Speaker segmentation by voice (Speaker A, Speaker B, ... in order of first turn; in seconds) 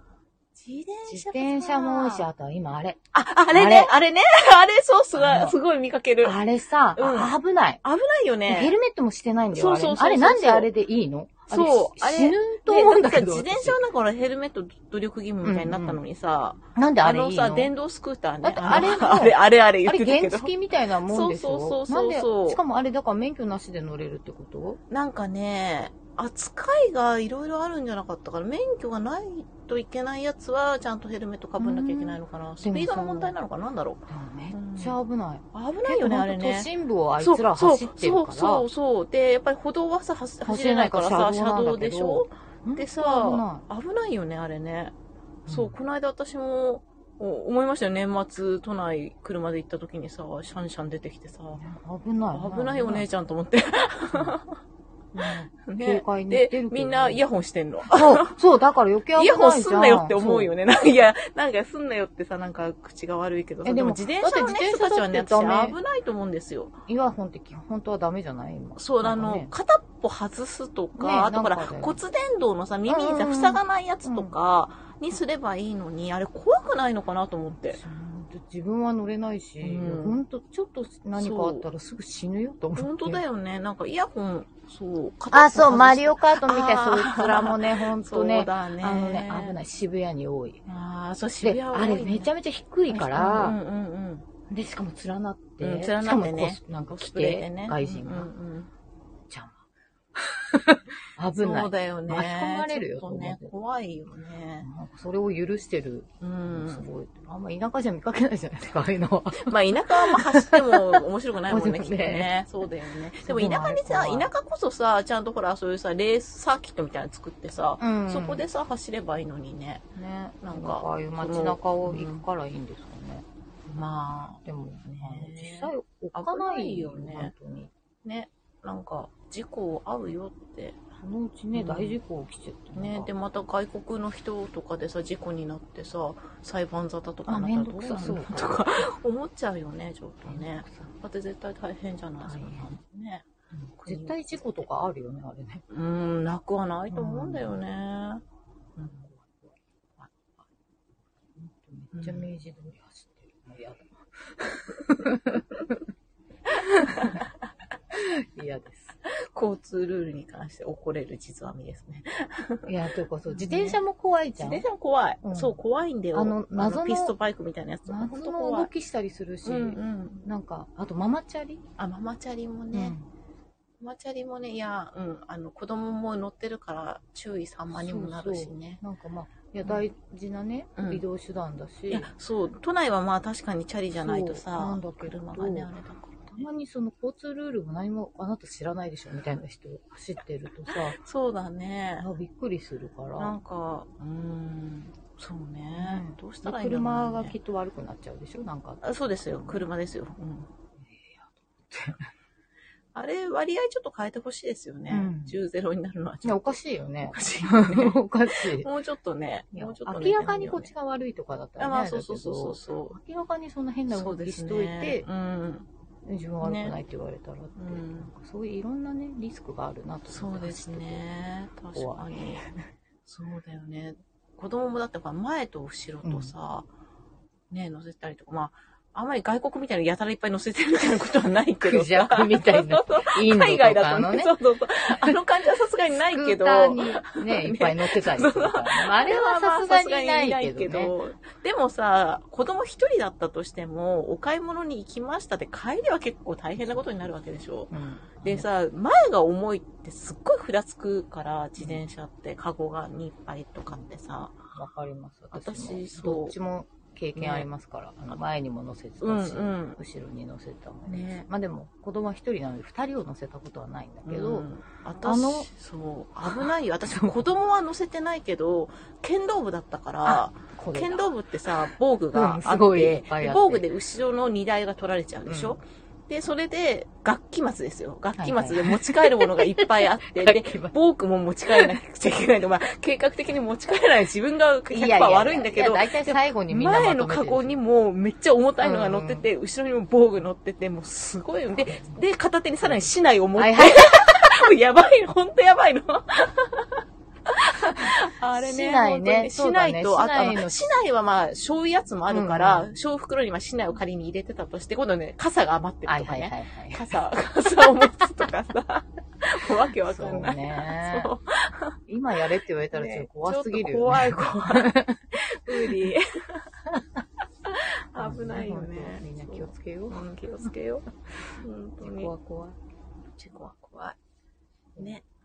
Speaker A: 0.6-2.2, 3.1-6.4, 7.0-8.8, 9.5-10.7, 11.5-20.5, 21.1-22.6, 24.9-35.0, 35.5-44.9, 45.5-51.7, 52.3-54.6, 55.6-58.4, 59.1-66.8, 68.8-77.8, 79.6-80.2, 81.2-81.6, 82.8-89.6, 90.7-92.3, 92.9-94.3, 95.6-98.7, 101.4-104.7, 106.2-106.8, 109.4-119.9, 120.4-122.2, 123.7-127.3, 128.0-130.8, 131.5-132.0, 132.8-144.7, 145.7-148.2, 148.8-149.1, 151.9-152.3, 156.7-157.2, 159.0-162.7, 163.3-163.8, 164.4-168.7, 169.4-170.2, 171.8-173.0, 173.8-178.8, 180.8-181.0, 181.9-186.4, 190.7-192.1, 193.2-197.4, 198.8-200.5, 202.9-210.7, 211.6-213.0, 213.9-215.7, 216.4-216.8, 217.6-218.1, 220.1-222.5, 223.1-226.7, 227.5-254.4, 255.3-256.4, 257.1-257.5, 259.0-259.8, 260.9-261.2, 264.1-311.8, 312.7-316.5, 317.4-322.1, 323.2-324.0, 324.8-325.1
Speaker B: 1.1-3.9, 5.1-5.5, 6.2-7.8, 8.5-13.8, 15.4-16.0, 16.8-17.7, 18.4-24.8, 31.6-33.4, 34.1-38.6, 40.4-43.6, 45.5-45.8, 51.6-53.1, 55.1-57.2, 57.9-60.5, 63.6-65.8, 66.9-69.5, 71.0-72.0, 72.9-74.3, 77.8-83.2, 85.3-90.6, 91.4-93.6, 94.5-98.3, 99.3-99.6, 100.2-103.5, 104.6-112.4, 113.2-114.3, 117.8-118.4, 119.9-123.2, 124.4-127.7, 131.0-133.1, 137.3-138.8, 140.2-140.9, 142.2-142.7, 143.8-145.6, 146.9-147.6, 149.1-149.5, 151.4-155.7, 156.6-157.2, 157.9-159.0, 162.7-164.7, 165.2-165.6, 166.1-167.1, 167.9-171.6, 172.7-173.1, 177.7-182.1, 184.0-185.7, 186.3-191.0, 192.0-193.4, 195.8-199.6, 200.8-202.1, 204.9-205.4, 206.2-208.7, 209.5-215.1, 216.0-221.1, 221.8-222.6, 226.0-226.3, 231.6-234.4, 234.9-235.1, 235.9-240.9, 247.7-248.5, 254.5-264.5, 265.0-265.5, 266.2-267.2, 270.0-271.0, 271.6-273.6, 275.2-275.6, 278.2-280.7, 281.5-281.8, 284.7-287.6, 288.6-289.3, 291.6-292.0, 292.6-294.1, 297.8-300.7, 302.1-302.8, 305.9-306.9, 309.9-311.1, 311.9-315.9, 318.0-320.5, 321.8-322.6